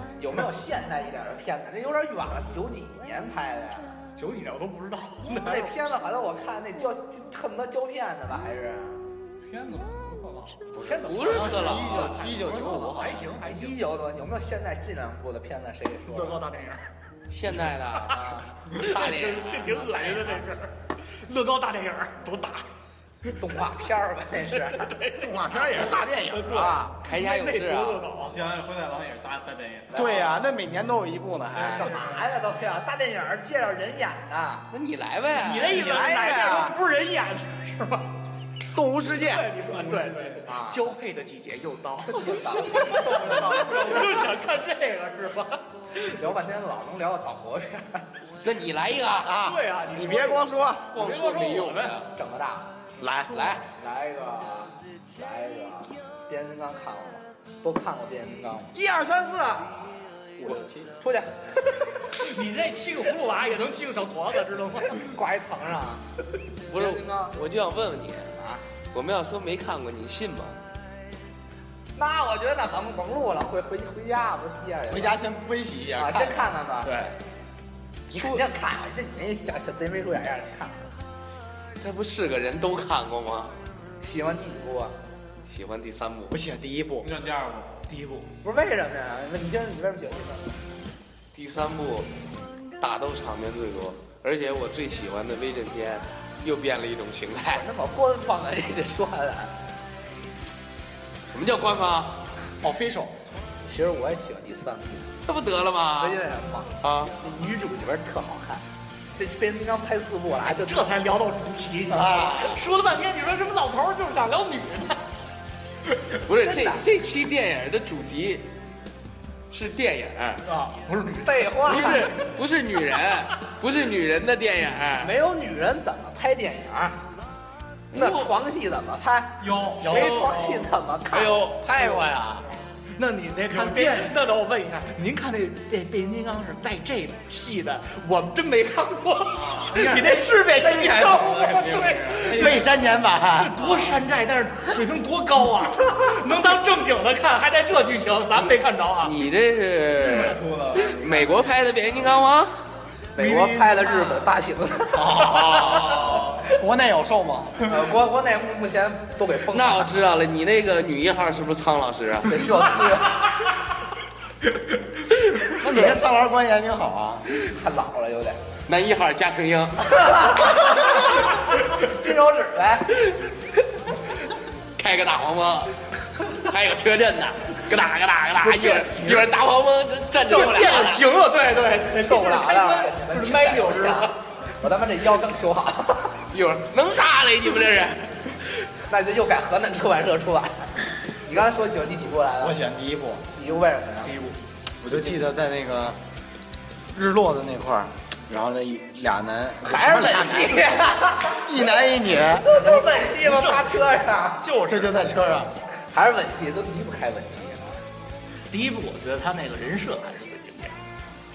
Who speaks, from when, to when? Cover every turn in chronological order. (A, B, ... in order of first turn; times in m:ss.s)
0:00.2-0:04.0 A
0:04.2-0:05.9 B
0:05.4-0:09.0 A
0:09.4-0:10.7 C
0:10.7-0:13.8 B
0:10.8-0:13.4 D
0:11.0-0:12.1 E
0:13.4-0:16.4 A
0:16.1-0:16.9 B
0:17.3-0:20.3 E
0:18.1-0:18.5 A
0:18.7-0:22.6 B
0:23.4-0:24.9 A
0:24.6-0:28.4 B
0:25.2-0:26.9 D
0:27.0-0:28.1 E
0:28.2-0:30.0 C
0:29.9-0:30.4 A
0:29.9-0:31.9 D
0:31.5-0:34.7 A
0:34.7-0:35.8 E
0:35.3-0:38.1 B
0:35.6-0:36.8 D
0:38.7-0:40.1 D
0:39.1-0:45.6 B
0:40.5-0:40.9 A
0:42.0-0:44.4 A
0:46.0-0:48.0 A
0:48.4-0:49.3 E
0:49.2-0:50.9 D
0:49.4-0:52.0 B
0:50.9-0:52.1 E
0:52.1-0:52.8 A
0:53.0-0:53.5 D
0:53.0-0:53.6 E
0:53.7-0:58.8 A
0:58.7-1:00.9 D
1:00.4-1:01.9 A
1:02.2-1:05.1 B
1:05.0-1:06.0 A
1:06.7-1:07.4 A
1:06.7-1:08.4 E
1:08.4-1:08.6 A
1:08.9-1:10.6 E
1:12.0-1:15.2 A
1:14.9-1:17.2 D
1:16.0-1:16.9 A
1:18.1-1:21.0 A
1:18.1-1:18.4 E
1:21.8-1:23.6 E
1:24.0-1:25.0 A
1:25.5-1:26.4 E
1:26.3-1:27.1 D
1:27.0-1:27.7 C
1:27.9-1:28.3 B
1:28.4-1:30.5 A
1:31.3-1:32.1 E
1:32.8-1:37.6 E
1:37.5-1:39.5 A
1:41.3-1:42.2 E
1:42.6-1:43.1 C
1:43.6-1:45.1 A
1:45.2-1:46.2 E
1:46.0-1:48.6 A
1:46.8-1:47.1 E
1:49.2-1:50.9 A
1:50.4-1:55.0 B
1:51.9-1:52.6 D
1:56.1-1:58.5 E
1:56.4-1:56.8 A
1:59.5-2:00.4 E
2:00.4-2:02.0 B
2:01.2-2:02.2 A
2:01.6-2:05.1 E
2:05.0-2:07.0 A
2:07.9-2:11.5 A
2:07.9-2:08.3 E
2:09.4-2:10.3 C
2:09.8-2:10.6 D
2:09.9-2:10.3 E
2:11.1-2:11.9 E
2:11.6-2:12.5 D
2:13.0-2:22.6 B
2:13.5-2:14.2 C
2:19.3-2:22.7 C
2:22.3-2:23.6 D
2:23.4-2:29.2 B
2:28.3-2:32.6 E
2:30.0-2:31.4 C
2:33.1-2:35.5 A
2:33.2-2:33.8 C
2:33.5-2:34.3 B
2:34.9-2:37.7 D
2:35.1-2:36.1 E
2:35.4-2:36.5 C
2:37.6-2:40.0 A
2:39.5-2:42.6 E
2:42.3-2:43.3 A
2:45.4-2:47.2 D
2:47.3-2:48.4 A
2:48.7-2:50.8 E
2:50.4-2:52.9 A
2:54.8-2:55.7 E
2:56.3-3:01.0 E
2:58.4-2:59.3 B
3:00.2-3:04.2 B
3:00.2-3:01.0 A
3:01.8-3:06.2 A
3:06.3-3:08.2 E
3:08.8-3:12.6 A
3:12.4-3:13.2 D
3:13.3-3:14.2 A
3:14.0-3:14.4 B
3:14.8-3:16.0 D
3:16.9-3:22.5 D
3:19.6-3:24.5 A
3:22.7-3:23.8 B
3:24.4-3:25.1 B
3:24.6-3:25.5 D
3:25.9-3:27.8 A
3:28.5-3:30.7 B